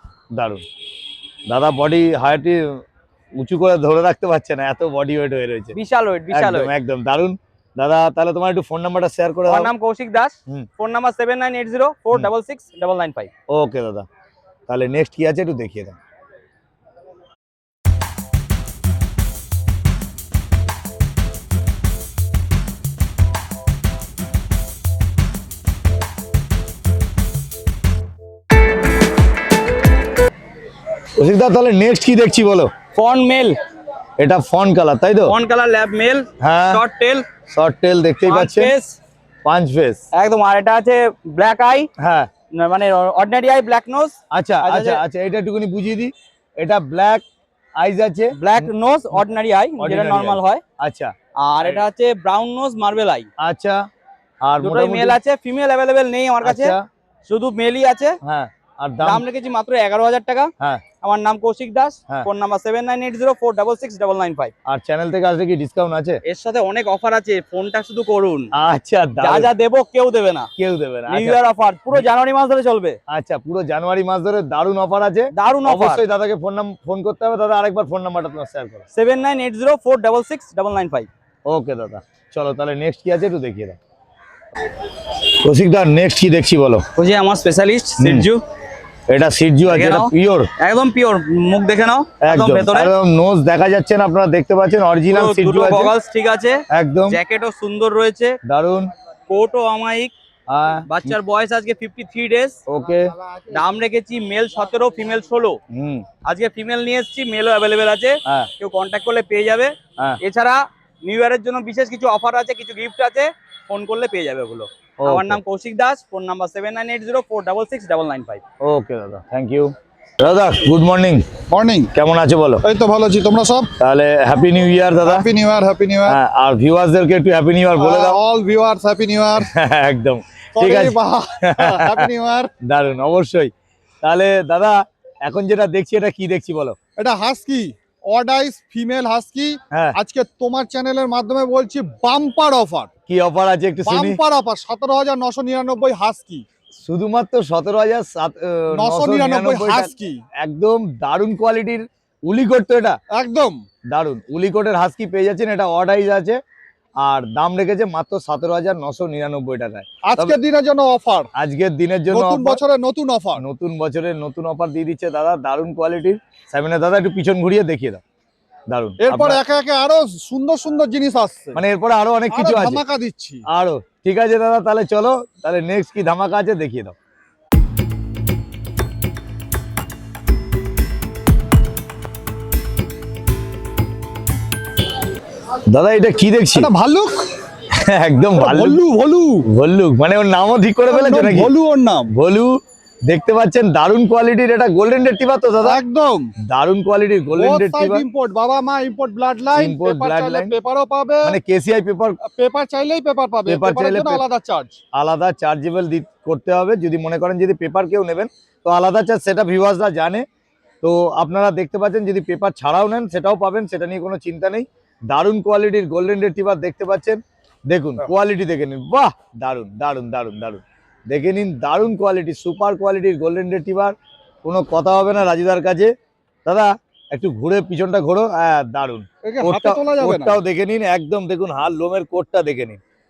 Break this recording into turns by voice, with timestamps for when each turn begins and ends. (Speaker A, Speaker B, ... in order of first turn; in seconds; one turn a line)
Speaker A: 0.3-0.6
Speaker A: 1.5-2.8
Speaker A: 3.4-5.8
Speaker B: 5.8-6.7
Speaker A: 6.3-9.7
Speaker B: 9.5-13.3
Speaker A: 13.5-14.1
Speaker A: 14.7-16.0
Speaker A: 31.2-32.7
Speaker B: 33.0-33.6
Speaker A: 34.2-35.4
Speaker B: 35.3-37.3
Speaker A: 36.4-36.9
Speaker A: 37.5-38.8
Speaker B: 38.3-39.0
Speaker A: 39.5-40.0
Speaker B: 40.1-41.9
Speaker A: 42.0-42.3
Speaker B: 42.6-45.0
Speaker A: 44.3-47.2
Speaker A: 47.8-48.7
Speaker B: 48.4-50.6
Speaker A: 49.8-51.8
Speaker B: 51.4-53.3
Speaker A: 53.4-53.8
Speaker A: 54.4-55.2
Speaker B: 54.6-56.8
Speaker A: 56.4-56.8
Speaker B: 57.3-58.2
Speaker A: 58.2-59.2
Speaker B: 59.0-60.5
Speaker B: 61.0-64.5
Speaker A: 64.7-66.2
Speaker B: 66.3-68.5
Speaker A: 68.5-69.5
Speaker B: 69.2-70.5
Speaker A: 70.6-71.4
Speaker B: 71.1-73.0
Speaker A: 73.1-78.8
Speaker B: 75.4-76.0
Speaker B: 79.0-81.1
Speaker A: 81.5-83.8
Speaker A: 85.4-86.8
Speaker B: 87.0-88.4
Speaker A: 88.0-88.3
Speaker A: 89.1-90.5
Speaker B: 89.7-92.9
Speaker A: 92.2-96.0
Speaker B: 95.1-98.4
Speaker A: 96.7-97.2
Speaker A: 98.5-98.9
Speaker B: 99.3-100.1
Speaker A: 100.5-101.2
Speaker B: 100.9-102.6
Speaker A: 102.7-103.1
Speaker B: 103.5-105.6
Speaker A: 105.7-106.1
Speaker B: 106.2-109.7
Speaker B: 110.3-118.4
Speaker A: 115.0-115.4
Speaker A: 118.6-121.2
Speaker C: 121.5-121.9
Speaker A: 121.9-122.6
Speaker C: 122.6-123.7
Speaker A: 123.8-125.3
Speaker C: 125.0-126.2
Speaker A: 126.1-128.2
Speaker C: 127.8-129.5
Speaker A: 129.4-131.0
Speaker C: 130.6-132.5
Speaker A: 131.5-132.1
Speaker A: 132.6-136.8
Speaker C: 137.0-142.9
Speaker A: 139.7-140.0
Speaker A: 143.1-144.2
Speaker C: 143.8-146.4
Speaker A: 146.8-153.0
Speaker C: 148.7-150.2
Speaker C: 153.1-153.6
Speaker A: 153.9-156.4
Speaker A: 157.0-160.4
Speaker C: 160.0-161.3
Speaker A: 161.4-162.6
Speaker C: 162.1-163.4
Speaker A: 163.4-168.0
Speaker A: 168.7-169.4
Speaker C: 169.0-171.6
Speaker A: 171.6-172.8
Speaker C: 172.3-173.4
Speaker A: 173.5-176.9
Speaker A: 185.7-186.7
Speaker C: 186.6-187.3
Speaker A: 187.7-188.8
Speaker C: 188.4-189.5
Speaker A: 189.5-191.5
Speaker C: 190.9-192.1
Speaker A: 192.1-195.8
Speaker C: 195.6-196.3
Speaker A: 196.4-198.1
Speaker C: 197.4-201.4
Speaker A: 199.6-200.6
Speaker A: 201.2-202.2
Speaker C: 202.2-204.8
Speaker A: 203.5-204.2
Speaker A: 204.9-210.2
Speaker A: 210.8-225.9
Speaker A: 226.5-232.8
Speaker C: 229.2-230.4